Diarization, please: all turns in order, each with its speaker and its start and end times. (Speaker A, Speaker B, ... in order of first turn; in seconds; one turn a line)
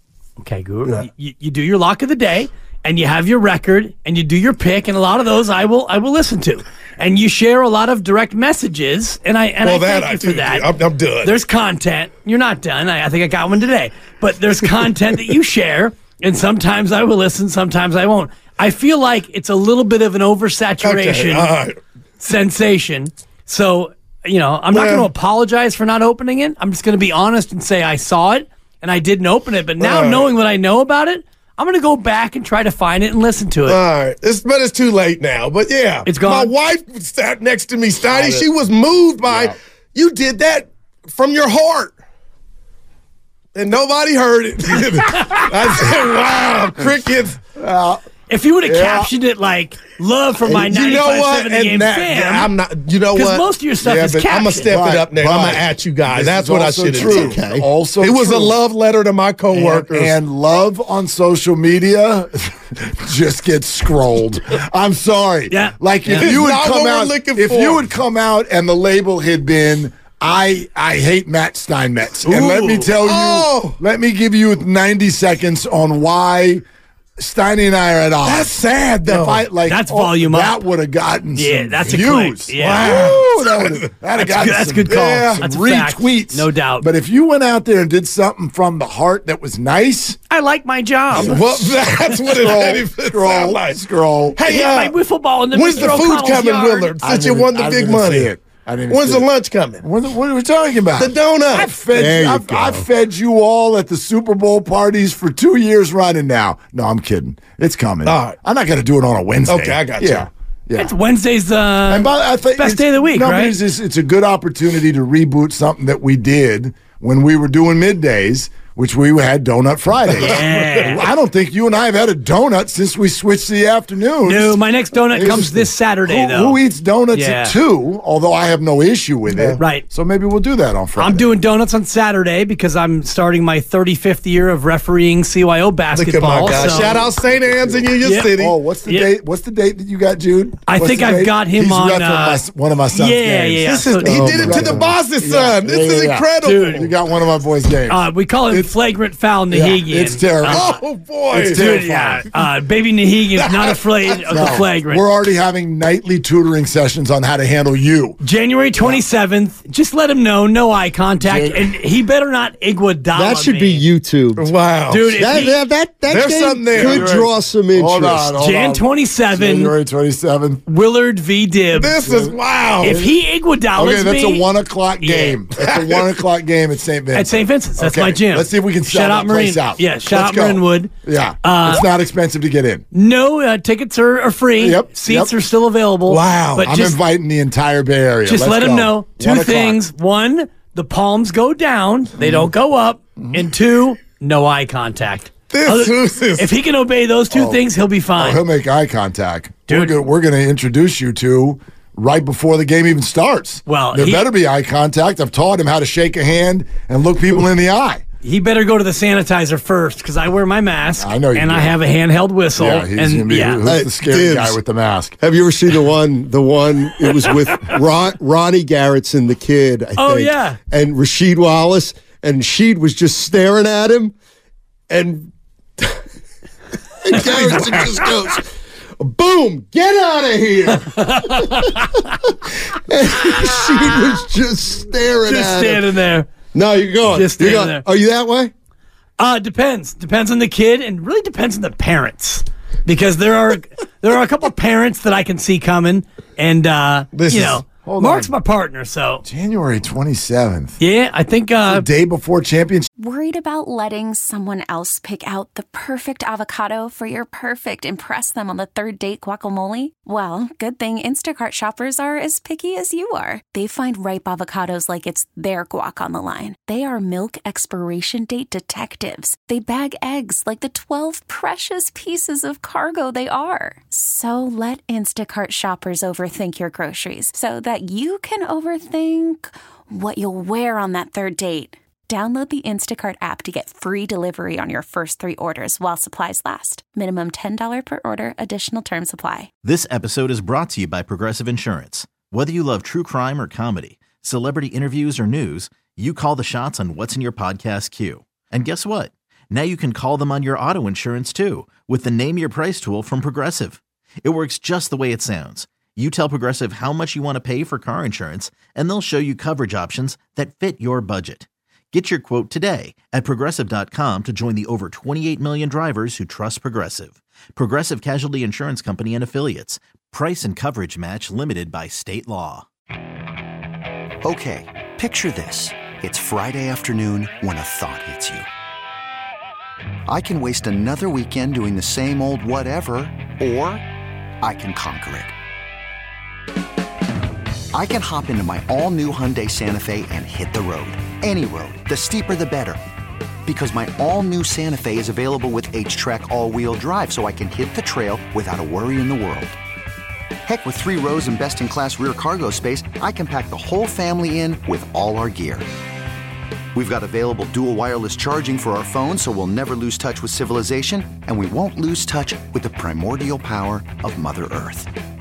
Speaker A: 0.4-10.7
Speaker B: 9.6-11.3
Speaker A: 11.2-21.6
Speaker B: 20.8-21.8
Speaker A: 22.2-33.8
Speaker B: 24.7-25.1
Speaker B: 29.8-30.3
Speaker B: 33.7-41.9
Speaker A: 36.1-36.5
Speaker C: 38.1-38.5
Speaker C: 39.2-39.5
Speaker B: 43.5-47.4
Speaker C: 47.6-48.0
Speaker A: 48.3-52.5
Speaker C: 48.6-49.1
Speaker B: 50.4-53.5
Speaker A: 53.1-54.8
Speaker C: 53.8-58.6
Speaker B: 54.3-60.1
Speaker D: 57.0-57.6
Speaker C: 59.5-76.6
Speaker A: 65.5-66.4
Speaker B: 66.2-67.8
Speaker A: 72.2-72.9
Speaker B: 73.0-73.8
Speaker C: 77.2-78.5
Speaker B: 78.2-79.5
Speaker C: 79.1-90.2
Speaker A: 79.6-80.6
Speaker A: 81.3-83.1
Speaker B: 82.6-83.9
Speaker A: 84.1-86.9
Speaker A: 90.3-91.4
Speaker C: 91.1-94.4
Speaker B: 91.2-93.8
Speaker B: 94.3-95.0
Speaker A: 94.4-97.0
Speaker B: 95.5-98.3
Speaker C: 97.0-99.3
Speaker B: 98.9-99.8
Speaker C: 99.8-110.9
Speaker B: 101.0-101.7
Speaker D: 101.9-102.9
Speaker B: 108.0-108.4
Speaker B: 109.5-110.2
Speaker A: 110.8-113.6
Speaker C: 111.9-131.3
Speaker A: 120.2-121.1
Speaker A: 124.2-126.6
Speaker A: 127.1-127.5
Speaker B: 129.3-129.6
Speaker A: 129.6-129.9
Speaker A: 131.0-137.0
Speaker B: 135.9-138.6
Speaker C: 136.4-148.7
Speaker A: 138.0-139.1
Speaker A: 140.7-144.3
Speaker B: 143.7-146.9
Speaker D: 144.1-144.8
Speaker A: 146.4-146.9
Speaker A: 147.9-150.8
Speaker C: 149.5-150.7
Speaker B: 150.5-151.7
Speaker C: 151.3-152.2
Speaker A: 151.5-155.0
Speaker B: 153.3-154.6
Speaker C: 154.3-158.2
Speaker A: 158.2-163.8
Speaker C: 161.2-161.8
Speaker D: 163.1-164.5
Speaker B: 164.4-165.2
Speaker A: 164.9-165.6
Speaker D: 165.2-168.3
Speaker B: 166.1-167.2
Speaker C: 166.7-170.6
Speaker A: 168.4-169.8
Speaker A: 170.7-172.0
Speaker B: 171.7-173.0
Speaker C: 172.0-173.2
Speaker A: 172.8-174.5
Speaker C: 173.7-182.9
Speaker A: 175.0-175.4
Speaker B: 175.6-176.0
Speaker A: 177.1-180.9
Speaker A: 181.4-181.9
Speaker A: 182.9-187.0
Speaker C: 184.6-185.4
Speaker B: 186.1-186.6
Speaker C: 186.6-189.8
Speaker A: 188.2-198.4
Speaker C: 192.2-192.5
Speaker C: 193.2-193.4
Speaker B: 195.5-196.5
Speaker C: 197.3-197.6
Speaker C: 198.2-208.0
Speaker A: 199.7-200.0
Speaker A: 203.7-204.3
Speaker A: 208.2-213.7
Speaker C: 211.0-211.8
Speaker C: 212.6-215.2
Speaker D: 213.7-214.6
Speaker D: 215.2-224.1
Speaker A: 217.3-217.8
Speaker A: 220.0-220.6
Speaker D: 224.9-226.0
Speaker D: 227.0-228.5
Speaker D: 229.0-231.8
Speaker A: 230.7-232.1
Speaker D: 232.7-235.9
Speaker A: 235.2-236.3
Speaker D: 236.5-238.5
Speaker A: 237.1-237.8
Speaker A: 239.2-249.2
Speaker B: 247.1-247.6
Speaker C: 247.8-248.3
Speaker C: 249.2-250.8
Speaker A: 250.8-251.8
Speaker C: 251.7-252.9
Speaker E: 253.0-289.5
Speaker F: 289.6-322.6
Speaker G: 324.2-328.5
Speaker G: 330.1-333.8
Speaker G: 334.4-335.3
Speaker G: 337.7-342.8
Speaker G: 343.4-349.6
Speaker G: 350.4-355.7
Speaker G: 356.7-364.9